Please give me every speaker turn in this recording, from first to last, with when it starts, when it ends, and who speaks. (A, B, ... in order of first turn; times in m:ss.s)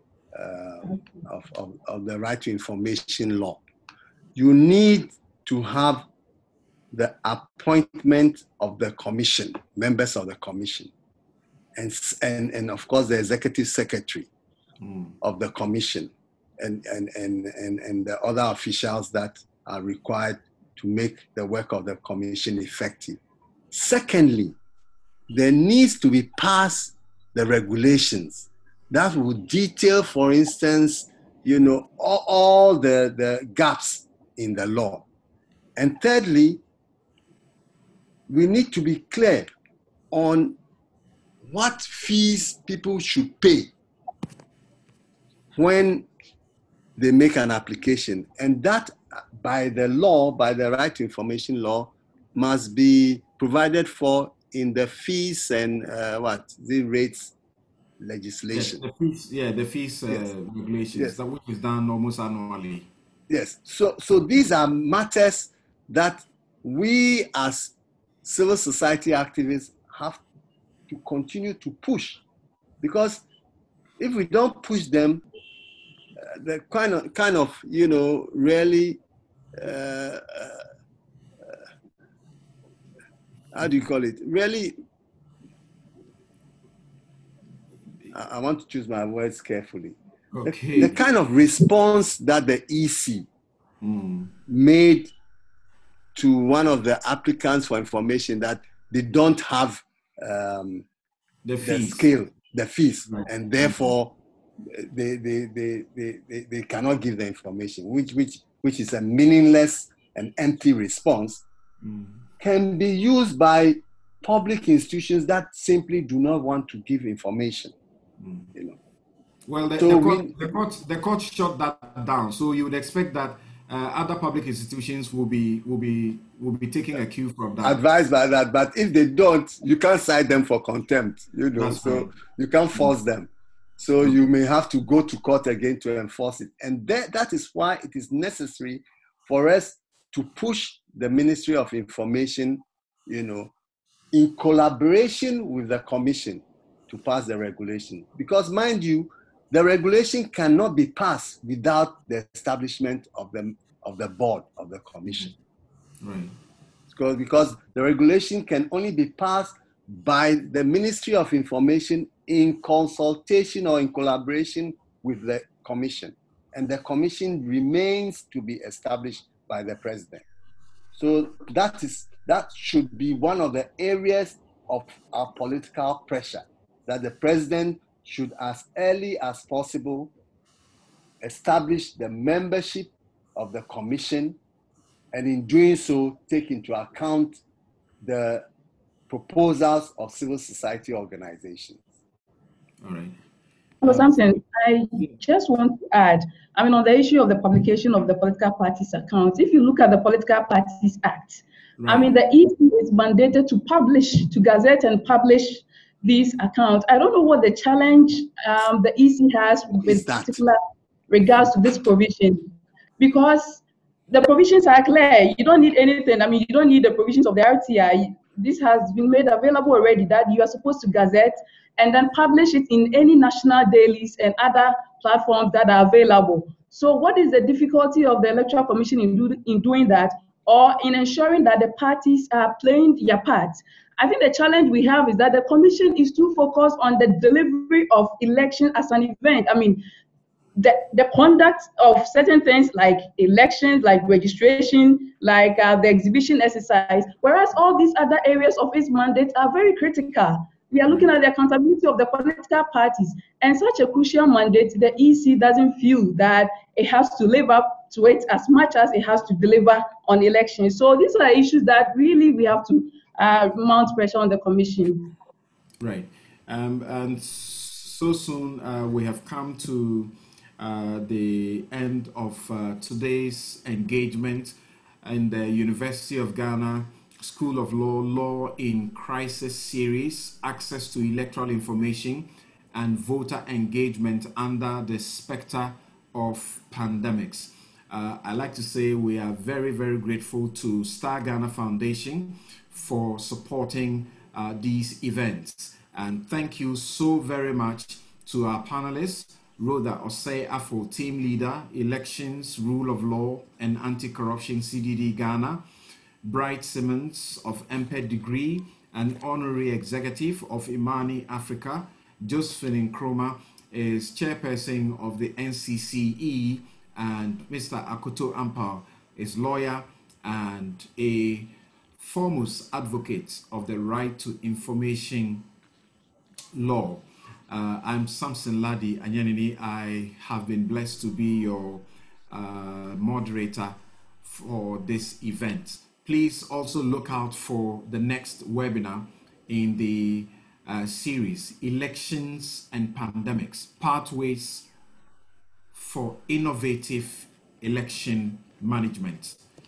0:00.3-0:03.6 A
0:04.4-0:06.0 A
0:06.9-0:10.9 A
0:11.7-0:14.3 A
0:14.8-0:15.1 B
0:15.2-0:23.2 A
0:23.7-0:24.6 A
0:25.3-0:35.0 A
0:35.8-0:36.6 A
0:38.3-0:39.5 A
0:40.1-0:40.6 A
0:41.4-0:43.7 A
0:45.6-0:46.1 A
0:47.0-0:57.3 A
0:58.0-0:58.8 A
0:58.5-1:02.9 B
1:03.3-1:07.7 A
1:08.2-1:10.2 A
1:10.9-1:12.2 A
1:12.8-1:13.2 A
1:14.0-1:15.2 A
1:16.2-1:19.0 A
1:19.6-1:20.6 A
1:23.5-1:24.8 A
1:28.1-1:33.3 A
1:30.3-1:31.0 B
1:33.8-1:34.3 B
1:34.5-1:35.1 A
1:36.1-1:40.8 A
1:41.4-1:42.1 B
1:41.6-1:51.4 A
1:43.0-1:43.9 B
1:51.8-1:52.2 B
1:52.4-1:57.7 A
1:58.2-1:58.5 B
1:59.5-2:07.8 B
1:59.8-2:00.4 A
2:07.6-2:23.5 A
2:11.5-2:12.2 B
2:24.1-2:35.4 A
2:36.0-2:36.3 B
2:36.9-2:50.2 A
2:50.9-3:00.1 A
3:01.2-3:04.4 A
3:05.1-3:07.4 A
3:08.0-3:08.4 A
3:09.1-3:11.8 A
3:12.8-3:13.2 B
3:13.8-3:59.8 C
3:13.8-3:14.1 B
3:21.8-3:22.1 B
3:29.8-3:30.4 A
4:00.6-4:25.1 C
4:25.8-5:05.6 B
5:06.2-5:25.4 B
5:26.5-5:44.7 B
5:45.7-5:49.4 B